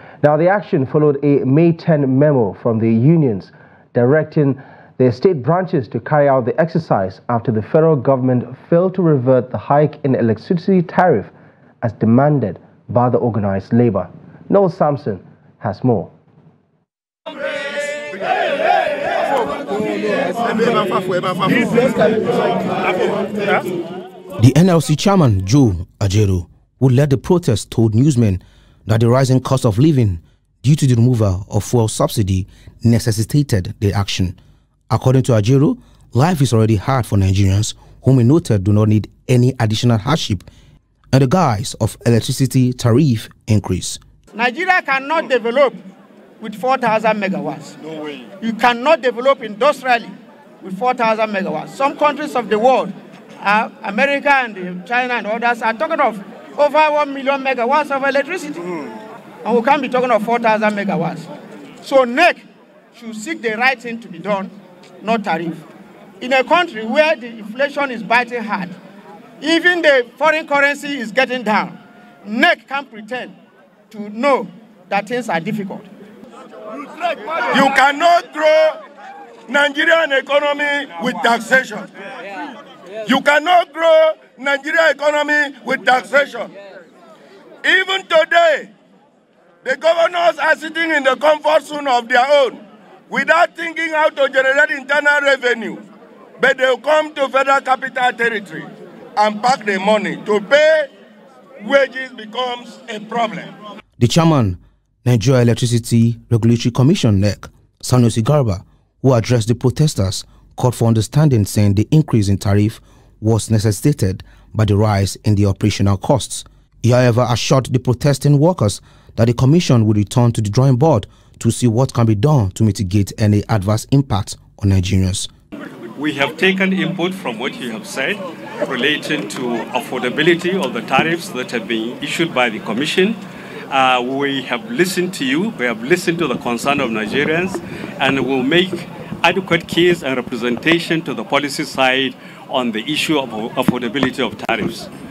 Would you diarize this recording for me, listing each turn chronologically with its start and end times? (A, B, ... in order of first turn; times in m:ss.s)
0:00.2-0:16.1 A
0:24.4-0:34.4 B
0:34.9-0:40.5 B
0:41.1-0:44.0 B
0:44.3-0:45.8 C
0:46.4-0:47.8 C
0:48.4-0:58.7 C
0:59.4-1:01.3 C
1:01.8-1:05.6 C
1:06.2-1:08.7 C
1:09.4-1:13.3 C
1:13.9-1:15.9 C
1:17.5-1:18.8 D
1:19.5-1:21.9 D
1:23.0-1:26.5 D
1:27.6-1:28.7 D
1:29.6-1:35.8 D
1:36.4-1:40.9 D
1:41.6-1:43.5 D
1:44.0-2:05.3 B
2:06.0-2:13.2 E
2:13.7-2:24.9 E